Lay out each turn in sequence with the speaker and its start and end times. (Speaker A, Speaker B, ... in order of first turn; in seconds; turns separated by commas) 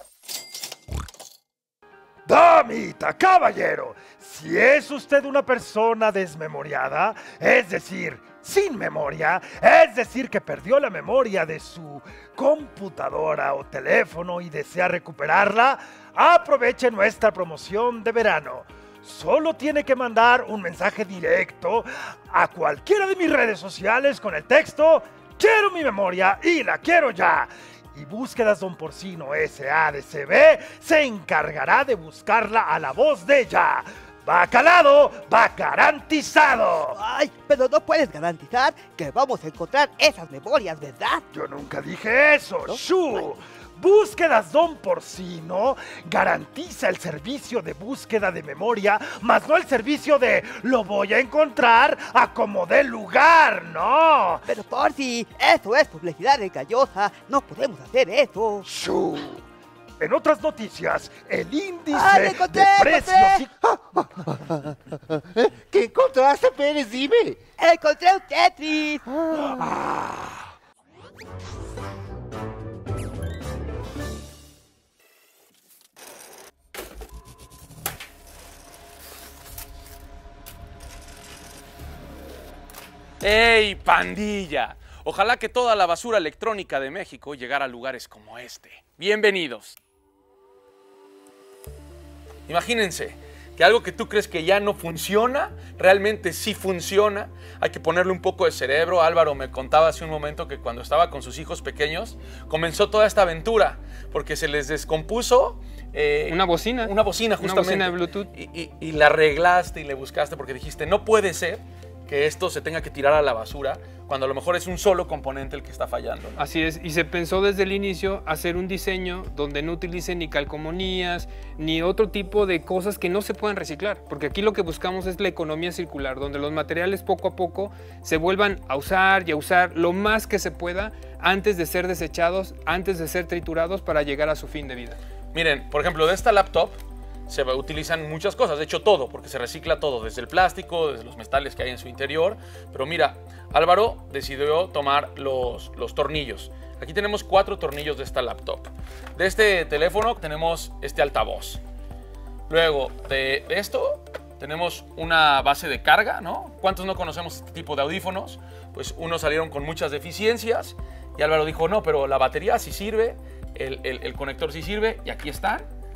Speaker A: 2.2-37.0, Speaker B: 36.9-41.2, Speaker A: 41.3-54.4, Speaker B: 54.5-58.6, Speaker A: 58.6-59.4, Speaker A: 60.0-63.5, Speaker B: 61.9-63.4, Speaker C: 63.6-67.4, Speaker B: 67.6-69.0, Speaker C: 69.1-69.9, Speaker A: 69.4-70.3, Speaker D: 83.2-89.8, Speaker D: 92.5-116.4, Speaker E: 106.3-108.3, Speaker E: 116.4-135.0, Speaker D: 135.3-136.8, Speaker D: 137.3-151.6, Speaker D: 152.5-165.7